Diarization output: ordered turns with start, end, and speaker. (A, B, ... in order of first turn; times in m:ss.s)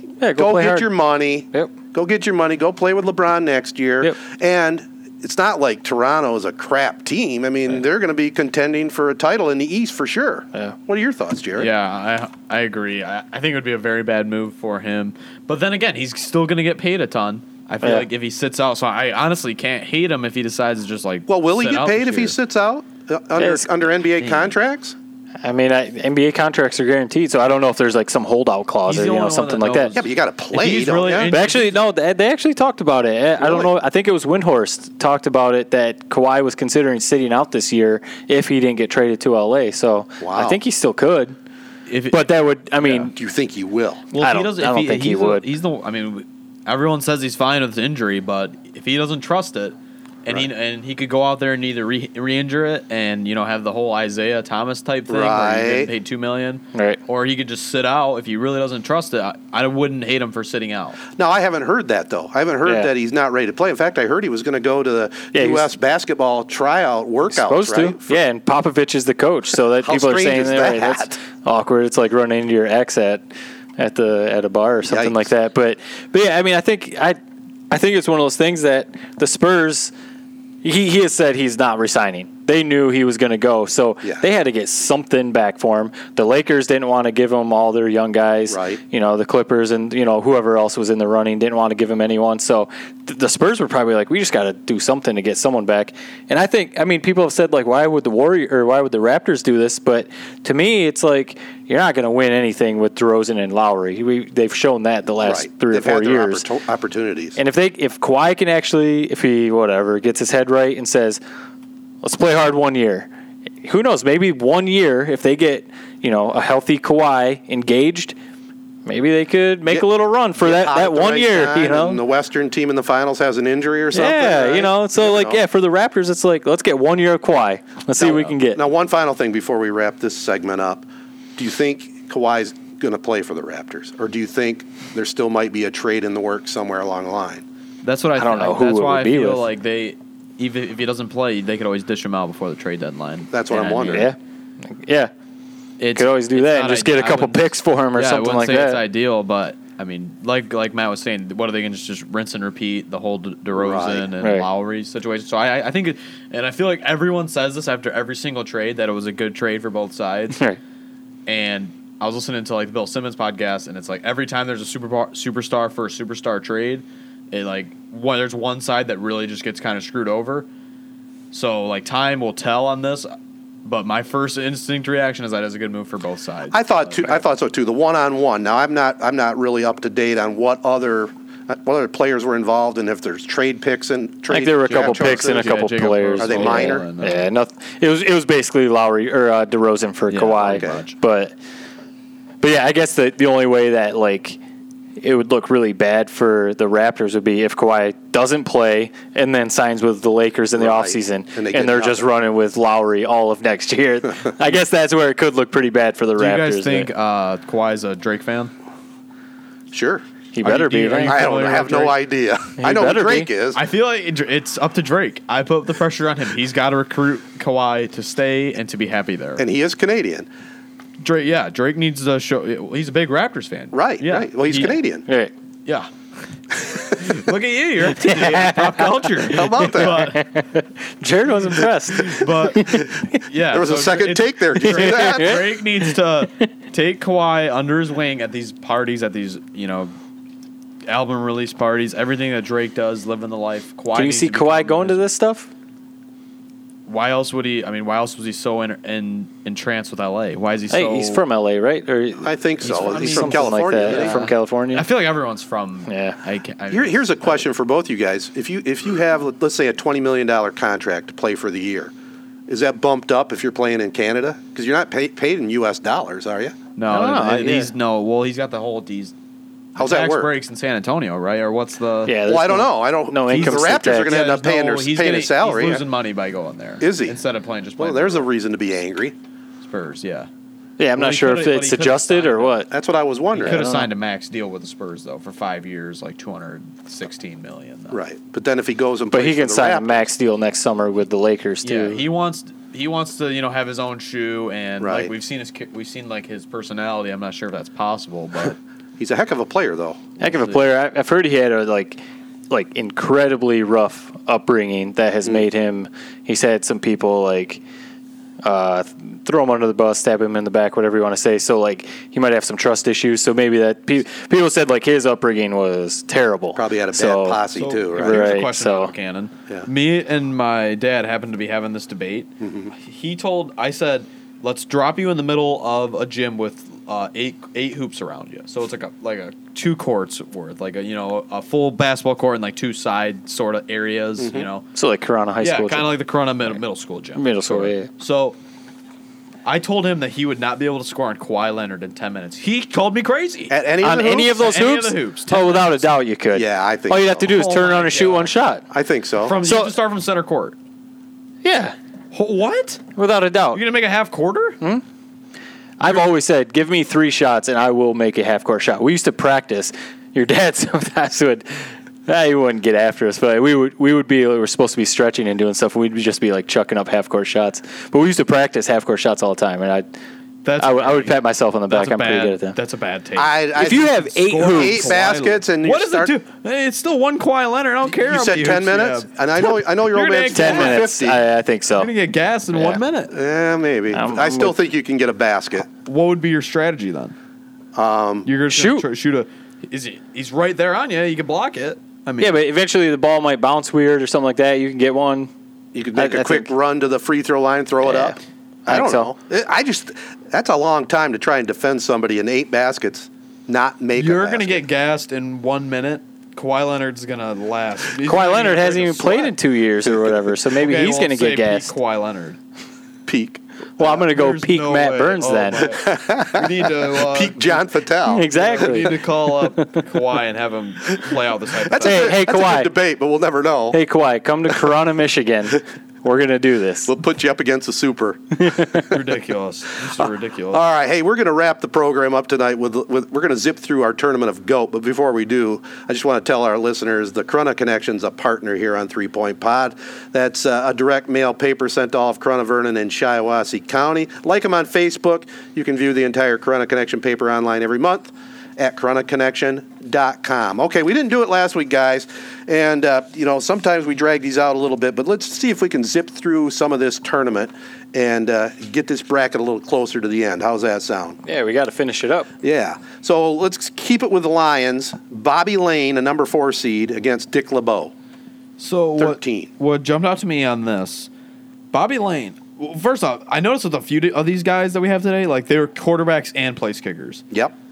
0:00.2-0:01.0 A
0:00.3-0:11.7 B
0:11.6-0:22.3 C
0:21.3-0:25.0 B
0:23.4-0:23.7 A
0:24.2-0:24.5 C
0:25.4-0:29.9 A
0:28.9-0:31.7 C
0:30.0-0:31.3 B
0:31.3-0:41.4 A
0:33.4-0:33.7 B
0:40.2-0:40.6 B
0:41.9-0:42.3 C
0:42.1-0:43.1 A
0:42.9-0:44.0 B
0:44.1-1:01.0 C
0:44.2-0:45.4 A
0:55.1-0:55.9 B
0:56.7-0:57.0 A
1:01.1-1:08.2 B
1:05.3-1:05.7 A
1:07.3-1:17.2 A
1:09.8-1:11.2 B
1:14.9-1:15.3 B
1:17.7-1:19.9 A
1:20.6-1:46.4 A
1:28.5-1:28.8 B
1:45.2-1:47.4 B
1:47.4-1:51.2 A
1:52.0-1:53.1 A
1:53.6-1:58.1 A
1:58.9-2:02.0 A
1:59.7-2:05.4 B
2:03.9-2:08.6 A
2:08.0-2:08.3 C
2:08.6-2:17.4 B
2:17.8-2:24.1 C
2:18.2-2:19.4 A
2:23.3-2:24.1 B
2:23.9-2:25.1 A
2:25.8-2:40.4 C
2:26.0-2:28.8 A
2:33.5-2:34.1 B
2:34.2-2:34.4 A
2:41.3-2:50.5 C
2:51.3-2:53.1 C
2:53.6-2:57.2 C
2:56.5-3:05.6 B
3:04.3-3:11.3 A
3:04.7-3:07.3 C
3:06.2-3:06.8 B
3:10.1-3:11.0 C
3:10.4-3:10.8 B
3:12.4-3:14.4 A
3:15.0-3:26.9 A
3:20.6-3:22.1 B
3:26.2-3:28.5 C
3:29.7-3:30.0 B
3:30.3-3:31.2 A
3:30.4-3:32.0 C
3:31.0-3:33.6 B
3:32.6-3:33.3 A
3:33.5-3:39.4 C
3:39.4-3:40.3 B
3:41.0-3:44.8 C
3:43.7-3:45.0 B
3:46.6-3:50.4 C
3:48.0-3:49.0 A
3:49.3-3:50.1 B
3:49.6-3:52.9 A
3:51.5-3:59.9 C
3:53.5-3:55.4 B
3:54.6-3:55.9 A
4:00.9-4:05.0 C
4:03.9-4:05.5 A
4:06.9-4:11.2 C
4:10.7-4:14.9 A
4:12.2-4:14.3 B
4:12.6-4:17.4 C
4:15.9-4:16.2 A
4:16.7-4:21.9 B
4:22.5-4:26.6 B
4:26.8-4:29.1 C
4:26.9-4:27.7 A
4:29.8-4:30.3 B
4:29.8-4:32.1 C
4:32.0-4:34.1 A
4:32.3-4:35.8 B
4:33.3-4:38.3 C
4:36.8-4:37.2 B
4:37.8-4:39.1 B
4:39.6-4:40.3 C
4:40.8-4:42.7 A
4:41.0-4:42.6 C
4:42.7-4:43.6 B
4:43.4-4:43.9 A
4:43.4-4:48.0 C
4:47.9-4:50.1 B
4:49.1-4:52.0 A
4:51.6-4:58.6 C
4:54.8-4:55.1 B
4:59.0-5:00.1 B
5:00.2-5:07.6 A
5:00.2-5:00.6 C
5:08.4-5:17.4 A
5:16.6-5:18.4 B
5:17.6-5:34.6 C
5:18.0-5:18.9 A
5:22.4-5:22.7 B
5:34.2-5:34.5 B
5:34.7-5:35.9 A
5:35.4-5:38.4 C
5:37.2-5:37.9 A
5:39.4-5:43.6 C
5:43.5-5:44.5 B
5:43.8-5:48.6 A
5:44.3-5:46.0 C
5:46.3-5:47.3 B
5:47.2-5:48.3 C
5:48.7-5:49.4 B
5:49.2-5:50.6 C
5:49.4-5:49.7 A
5:51.4-5:51.7 A
5:52.1-5:52.8 C
5:53.0-5:53.6 A
5:53.5-5:54.6 C
5:55.8-6:09.9 A
6:10.4-6:11.2 C
6:10.6-6:12.6 A
6:11.7-6:20.9 C
6:13.2-6:16.1 B
6:13.6-6:15.0 A
6:17.9-6:21.2 B
6:20.3-6:21.9 A
6:21.7-6:23.1 C
6:22.5-6:22.8 A
6:23.1-6:25.7 B
6:23.9-6:24.6 A
6:25.9-6:27.1 C
6:27.7-6:28.3 B
6:28.3-6:32.4 C
6:28.5-6:28.8 A
6:32.2-6:35.3 A
6:35.7-6:44.6 B
6:36.0-6:36.5 A
6:37.8-6:39.1 A
6:44.0-6:49.3 C
6:48.0-6:51.7 A
6:50.6-6:52.4 C
6:53.1-6:53.4 B
6:53.8-6:55.7 A
6:53.8-6:57.7 C
6:55.6-6:58.8 B
6:58.1-6:59.8 A
6:58.3-7:02.1 C
7:01.7-7:03.8 B
7:01.8-7:02.7 A
7:03.7-7:06.9 A
7:06.9-7:08.8 B
7:08.4-7:08.9 A
7:08.9-7:10.6 C
7:10.0-7:41.2 B
7:41.3-7:42.3 A
7:42.4-7:47.9 B
7:48.6-7:51.1 C
7:49.0-7:49.5 B
7:51.7-7:57.2 C